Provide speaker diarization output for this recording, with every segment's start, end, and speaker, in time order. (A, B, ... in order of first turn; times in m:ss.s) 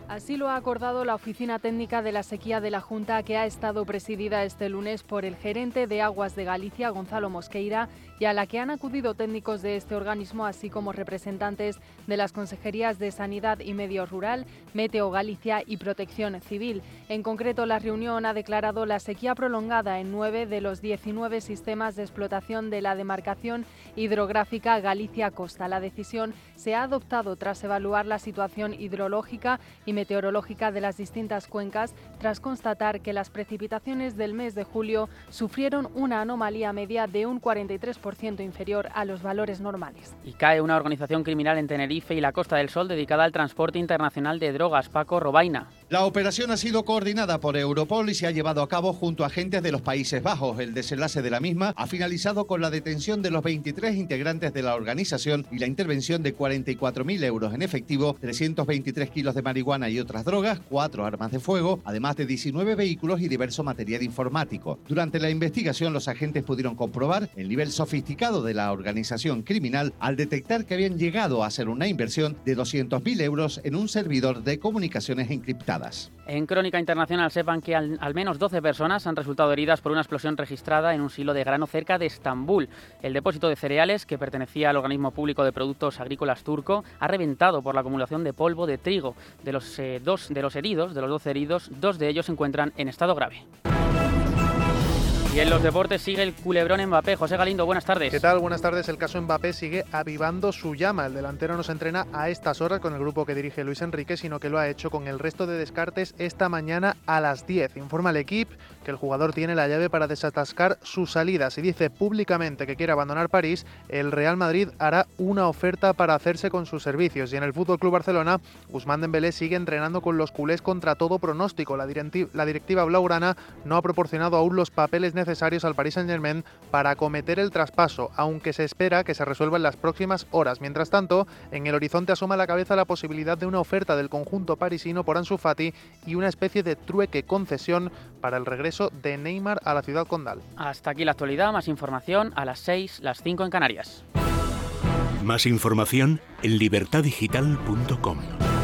0:00.1-0:40.2 A
0:40.2-0:45.7 B
0:45.9-1:16.1 C
1:16.3-1:33.4 B
1:35.3-1:38.2 B
1:38.1-2:20.4 D
2:20.6-2:24.0 B
2:25.2-2:28.4 E